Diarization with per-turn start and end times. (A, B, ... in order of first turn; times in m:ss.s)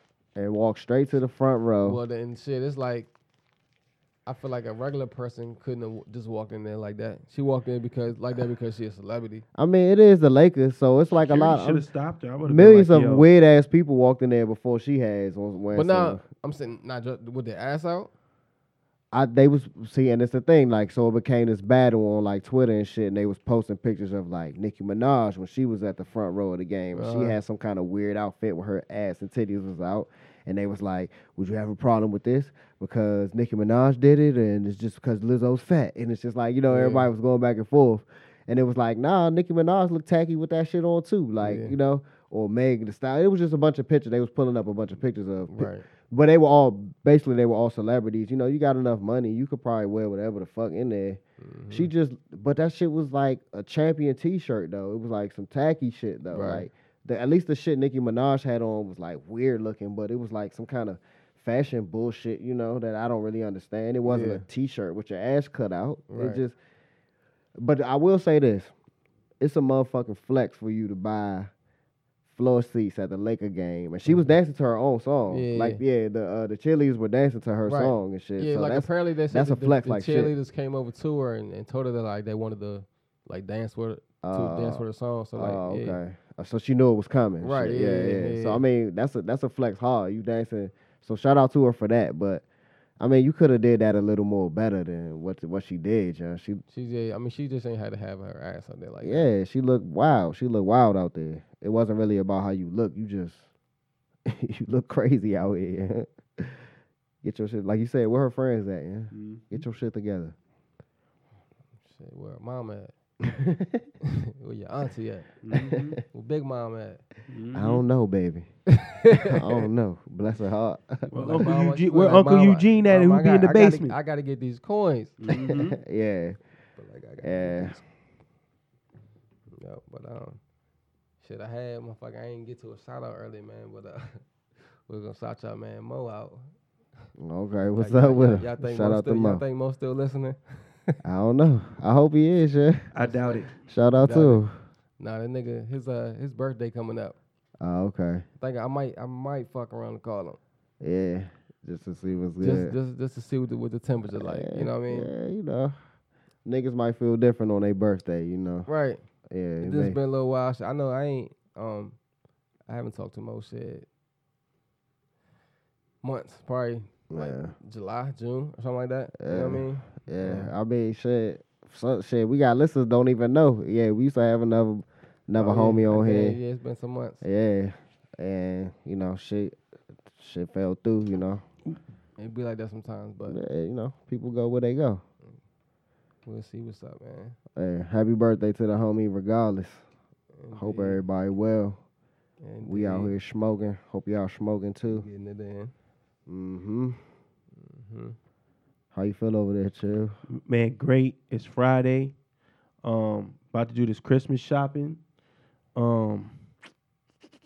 0:00.3-0:02.0 A
0:01.8-0:03.1 B
0:04.2-0:09.4 B
0:09.5-0:11.8 A
0:11.1-0:13.3 C
0:12.4-0:16.2 A
0:15.7-0:18.1 B
0:19.1-0:51.2 A
0:26.9-0:27.4 B
0:36.7-0:37.1 B
0:41.4-0:41.8 B
0:45.5-0:45.9 B
0:51.4-0:51.9 B
0:51.7-1:06.6 A
0:56.3-0:56.7 B
1:04.0-1:04.4 B
1:06.1-1:06.4 B
1:07.6-1:08.7 A
1:09.4-1:11.5 A
1:12.3-1:20.3 A
1:15.3-1:15.8 B
1:17.6-1:26.0 B
1:24.2-1:24.8 A
1:25.4-1:32.4 A
1:27.4-1:28.6 B
1:33.0-1:36.6 A
1:36.7-1:39.3 B
1:39.0-1:43.5 A
1:44.2-1:46.7 A
1:47.2-1:50.3 A
1:49.1-1:49.6 C
1:51.8-1:52.9 B
1:53.4-1:53.8 A
1:54.0-1:55.3 B
1:55.4-1:56.0 C
1:56.1-1:57.0 B
1:57.3-1:57.8 C
1:57.5-1:58.5 A
1:58.8-1:59.4 B
1:59.1-2:01.5 A
2:01.1-2:05.2 B
2:01.1-2:03.9 C
2:05.2-2:05.8 C
2:05.3-2:06.4 A
2:06.8-2:07.8 B
2:07.2-2:07.8 A
2:09.5-2:10.4 B
2:11.2-2:14.2 B
2:14.9-2:16.5 B
2:17.2-2:19.4 A
2:17.8-2:21.0 B
2:21.0-2:22.9 A
2:22.9-2:23.5 C
2:23.0-2:23.5 B
2:23.6-2:24.5 A
2:24.0-2:24.4 B
2:25.0-2:27.2 B
2:27.6-2:28.2 A
2:28.4-2:30.4 B
2:30.8-2:32.8 A
2:32.4-2:35.1 B
2:34.1-2:35.8 A
2:36.4-2:38.7 A
2:38.7-2:39.0 B
2:39.3-2:40.0 A
2:39.6-2:42.0 B
2:42.7-2:43.9 B
2:46.0-2:50.5 B
2:47.1-2:47.5 A
2:49.2-2:56.4 A
2:55.4-2:57.2 B
2:57.2-2:59.6 A
3:00.1-3:01.4 A
3:02.2-3:03.4 B
3:03.3-3:05.0 A
3:06.2-3:07.4 B
3:07.6-3:09.8 A
3:10.4-3:11.0 B
3:10.5-3:11.8 A
3:12.4-3:13.2 B
3:12.6-3:15.0 A
3:14.9-3:15.7 B
3:16.3-3:17.0 A
3:17.5-3:18.2 B
3:18.9-3:20.2 A
3:20.3-3:22.1 C
3:22.8-3:25.0 C
3:25.8-3:26.4 C